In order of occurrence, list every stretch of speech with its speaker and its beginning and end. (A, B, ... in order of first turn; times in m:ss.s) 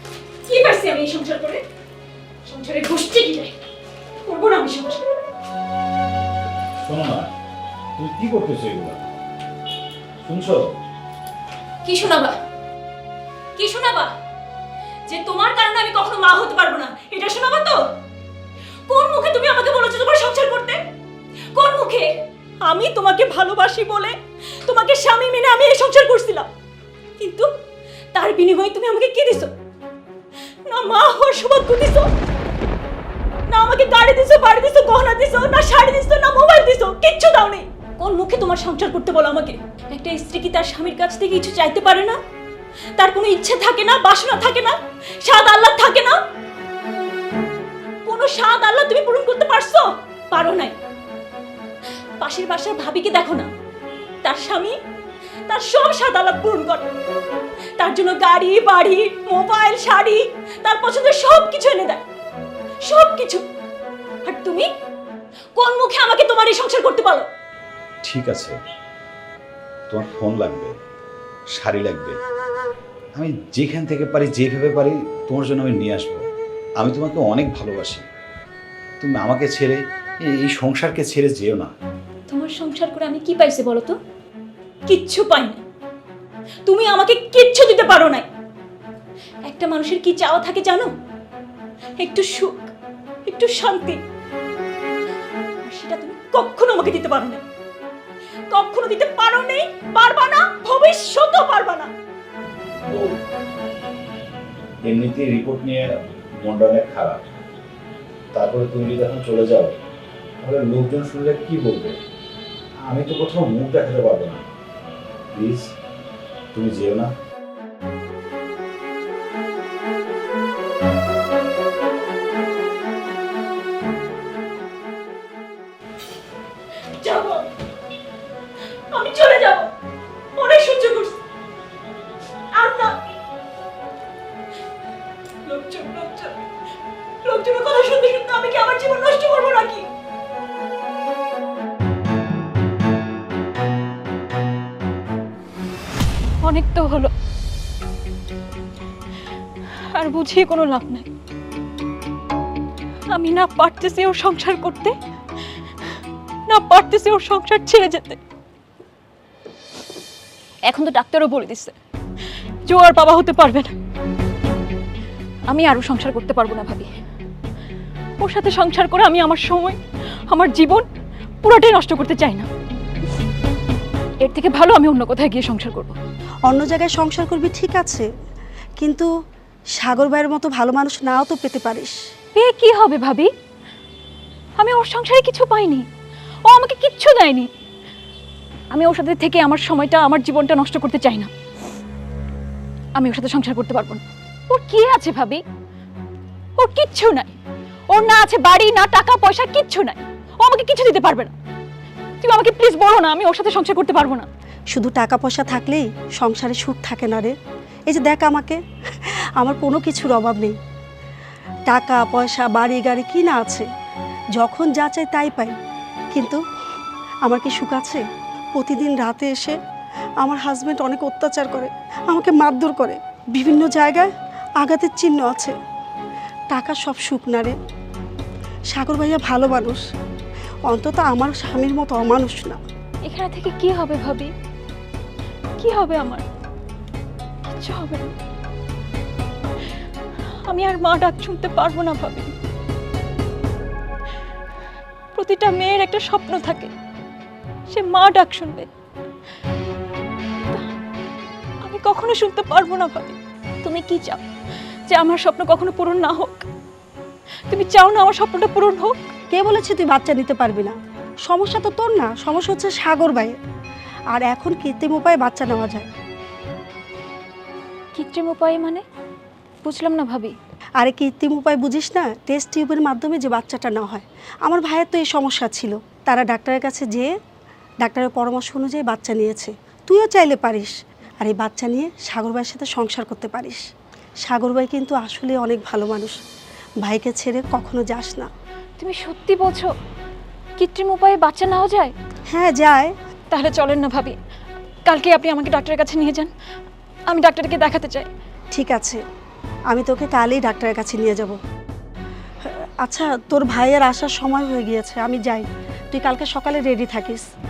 0:00.4-0:01.6 A
0:02.4-0:03.5 A
0:04.2-0:05.0 A
0:06.8-0:07.3 B
0:08.0-0:09.0 B
0:10.2-0:10.8 B
0:11.8-0:12.4 A
0:13.6-0:14.1 A
0:15.0-0:17.8 A
0:18.9-0:20.8 A
0:21.5-0:22.1 A
0:22.6-0:26.5 A
0:27.2-0:27.5 A
0:28.1-0:29.5 A
0:30.7-0:32.1 A
0:33.5-0:42.2 A
0:43.0-0:46.2 A
0:48.0-0:50.7 A
0:52.2-0:53.5 A
0:54.2-0:54.8 A
0:55.5-0:56.9 A
0:57.8-1:02.0 A
1:02.8-1:03.4 A
1:04.2-1:04.7 A
1:05.6-1:07.3 A
1:08.0-1:08.5 B
1:09.9-1:10.8 B
1:11.5-1:12.2 B
1:13.1-1:16.2 B
1:16.8-1:18.0 B
1:19.0-1:21.7 B
1:22.3-1:24.0 A
1:24.9-1:25.6 A
1:26.6-1:28.3 A
1:29.5-1:30.9 A
1:32.0-1:32.7 A
1:33.2-1:34.0 A
1:35.6-1:37.4 A
1:38.5-1:41.9 A
1:42.9-1:43.2 B
1:44.8-1:45.8 B
1:46.4-1:47.2 B
1:48.3-1:49.7 B
1:50.4-1:52.0 B
1:52.8-1:54.4 B
1:55.3-1:55.7 B
1:56.5-1:57.1 B
2:07.0-2:07.5 A
2:08.9-2:09.7 A
2:10.4-2:11.2 A
2:12.5-2:12.9 A
2:15.4-2:16.4 A
2:17.2-2:19.8 A
2:26.4-2:27.1 A
2:29.9-2:31.1 A
2:33.1-2:34.9 A
2:36.5-2:38.2 A
2:40.7-2:41.8 A
2:42.7-2:43.7 A
2:45.5-2:46.9 A
2:48.2-2:49.8 A
2:50.3-2:50.8 A
2:51.4-2:52.5 A
2:54.2-2:55.9 A
2:56.5-2:58.0 C
2:58.8-2:59.1 C
2:59.8-3:01.9 C
3:02.3-3:03.3 A
3:04.6-3:05.8 A
3:06.4-3:07.5 A
3:08.7-3:11.3 A
3:12.9-3:15.4 A
3:16.6-3:17.4 A
3:17.9-3:21.3 A
3:22.2-3:24.3 A
3:24.7-3:27.3 C
3:27.9-3:30.6 C
3:31.7-3:33.6 C
3:34.4-3:35.5 C
3:36.1-3:36.4 C
3:37.2-3:38.0 C
3:38.5-3:39.6 C
3:40.2-3:44.1 C
3:44.6-3:45.5 C
3:46.5-3:47.5 C
3:48.7-3:49.8 C
3:50.7-3:52.6 C
3:53.0-3:54.3 A
3:55.6-3:56.2 A
3:57.4-3:58.1 A
4:00.5-4:02.3 A
4:05.1-4:06.7 A
4:07.7-4:08.7 A
4:11.6-4:14.2 A
4:14.9-4:16.5 A
4:17.5-4:18.9 A
4:19.3-4:20.7 C
4:21.2-4:23.3 C
4:24.1-4:25.9 C
4:27.9-4:28.8 A
4:29.6-4:30.3 A
4:30.8-4:37.1 C
4:37.8-4:43.6 C
4:44.2-4:46.2 C
4:46.8-4:48.3 C
4:48.8-4:49.7 A
4:50.6-4:51.9 A
4:52.3-4:52.9 C
4:53.3-4:54.1 A
4:54.8-4:56.3 A
4:57.1-4:58.1 A
4:58.5-4:59.0 C
4:59.7-5:01.4 C
5:02.5-5:07.2 C